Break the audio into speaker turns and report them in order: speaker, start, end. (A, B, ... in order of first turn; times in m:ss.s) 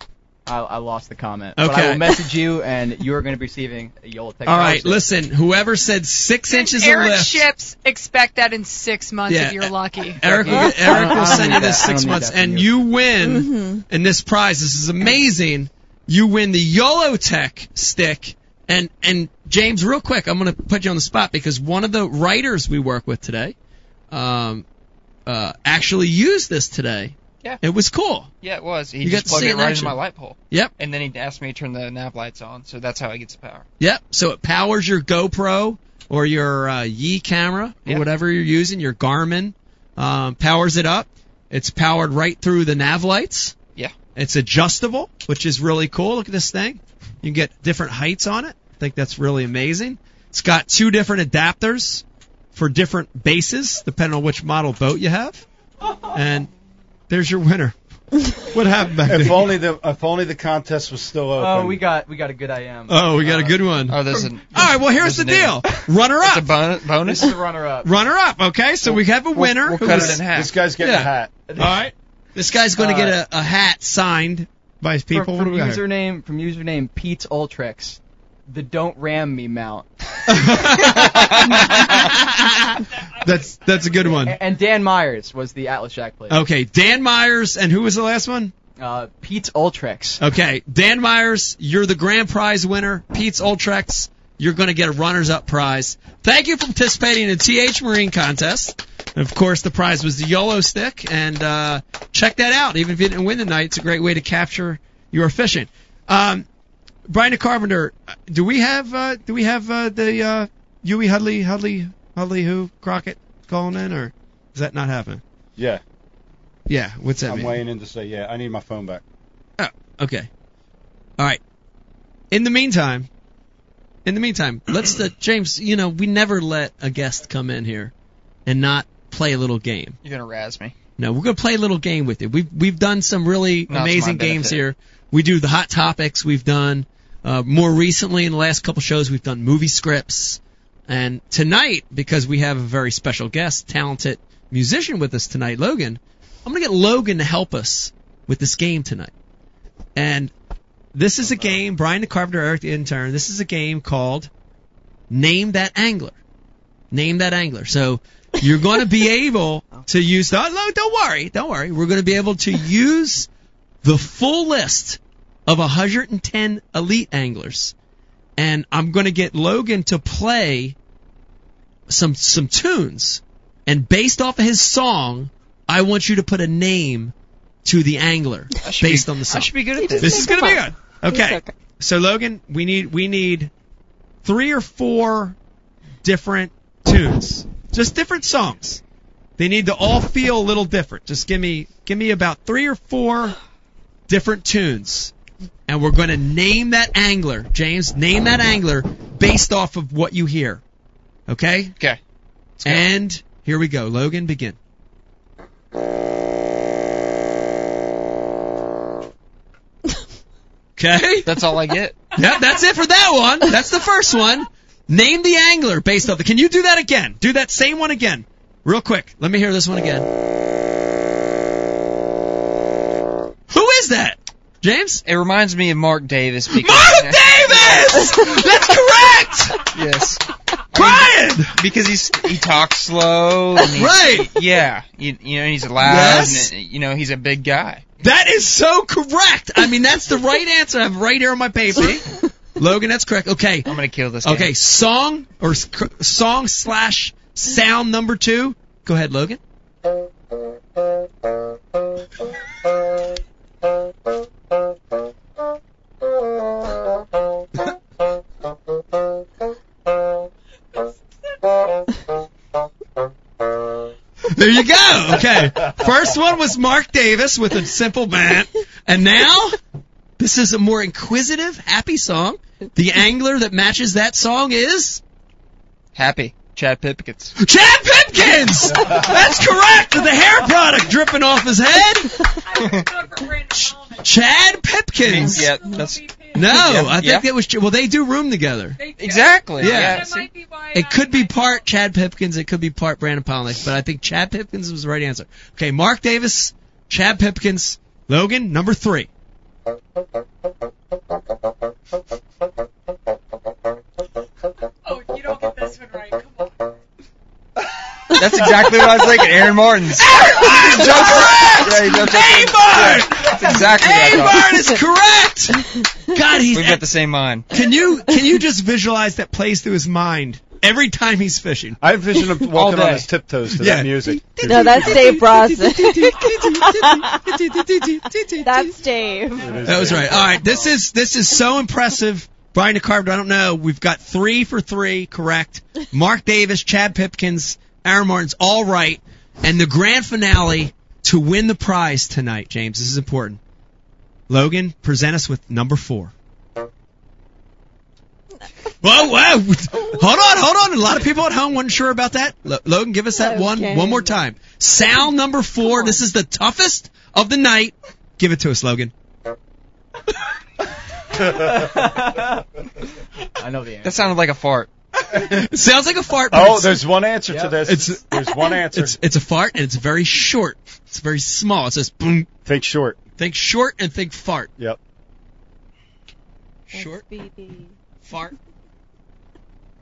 0:00.5-0:05.0 A
0:01.6-0:02.4 B
0:04.5-0:07.5 B
0:06.5-0:10.9 C
0:09.3-0:23.6 B
0:10.2-0:12.7 A
0:11.4-0:11.7 D
0:13.2-0:13.8 D
0:24.1-0:24.7 B
0:25.3-0:28.3 B
0:28.4-0:33.7 E
0:29.0-0:30.0 B
0:33.8-0:43.6 B
0:44.2-0:55.4 B
0:56.1-0:56.5 B
0:57.1-0:57.8 B
0:58.3-0:59.5 B
0:59.0-1:01.8 F
1:01.4-1:03.6 A
1:02.9-1:06.5 B
1:03.9-1:07.4 E
1:07.0-1:08.1 A
1:07.8-1:10.2 B
1:09.4-1:10.5 E
1:09.8-1:11.3 F
1:10.8-1:15.8 B
1:11.5-1:11.8 A
1:12.8-1:13.2 A
1:15.1-1:21.9 A
1:20.3-1:24.4 B
1:22.9-1:24.1 C
1:24.0-1:26.4 A
1:26.3-1:28.5 B
1:28.8-1:30.2 A
1:30.2-1:46.5 B
1:47.1-1:55.2 B
1:55.6-1:55.8 F
1:56.7-1:57.6 B
1:57.2-1:59.0 F
1:59.6-2:00.3 B
2:02.3-2:03.1 B
2:04.0-2:07.9 B
2:08.5-2:10.0 B
2:10.0-2:10.8 E
2:11.0-2:29.1 B
2:13.7-2:14.6 E
2:30.0-2:30.3 B
2:30.9-2:34.3 B
2:35.1-2:36.2 B
2:36.9-2:43.3 B
2:43.8-2:47.7 B
2:48.4-2:50.8 B
2:51.9-2:57.1 B
2:57.6-3:03.5 B
2:58.6-3:00.4 E
2:59.8-3:01.5 D
3:04.2-3:05.4 B
3:06.0-3:08.8 B
3:09.4-3:13.4 B
3:14.1-3:15.1 B
3:15.7-3:20.6 B
3:21.3-3:21.8 B
3:22.6-3:22.9 E
3:22.6-3:24.6 B
3:30.8-3:31.3 B
3:31.2-3:32.0 E
3:32.1-3:40.1 B
3:43.5-3:45.0 B
3:45.0-3:48.1 E
3:46.6-3:49.7 B
3:49.7-3:57.8 E
3:50.7-3:51.6 B
3:53.7-3:54.3 B
3:55.8-3:56.5 B
3:58.0-4:09.4 B
4:03.7-4:04.5 E
4:24.2-4:29.6 B
4:30.2-4:35.0 B
4:36.0-4:37.4 E
4:37.4-4:42.4 B
4:38.8-4:39.1 F
4:42.4-4:44.7 C
4:42.6-4:42.8 E
4:43.6-4:45.5 B
4:45.0-4:47.3 E
4:45.3-4:46.9 C
4:46.3-4:48.8 B
4:48.8-4:51.7 C
4:49.0-4:50.3 E
4:49.6-4:50.1 B
4:50.7-4:59.1 B
5:04.8-5:06.8 C
5:08.1-5:14.8 E
5:10.0-5:16.9 B
5:16.5-5:17.5 E
5:17.5-5:21.8 B
5:21.8-5:25.2 F
5:22.5-5:23.1 E
5:23.6-5:28.8 B
5:24.4-5:27.7 D
5:28.4-5:30.0 D
5:29.0-5:29.6 C
5:29.4-5:30.6 F
5:29.6-5:43.4 B
5:44.3-5:46.1 B
5:48.8-5:58.9 B
5:53.1-5:54.2 D
5:55.7-5:56.0 D
6:01.1-6:02.0 F
6:01.2-6:02.4 A
6:03.3-6:04.2 A
6:03.8-6:04.7 E
6:05.1-6:05.5 F
6:05.2-6:06.8 B
6:06.3-6:09.0 F
6:07.3-6:07.6 A
6:07.6-6:12.3 B
6:12.4-6:13.0 F
6:13.2-6:14.5 B
6:16.7-6:17.0 B
6:16.7-6:17.7 D
6:18.0-6:18.4 B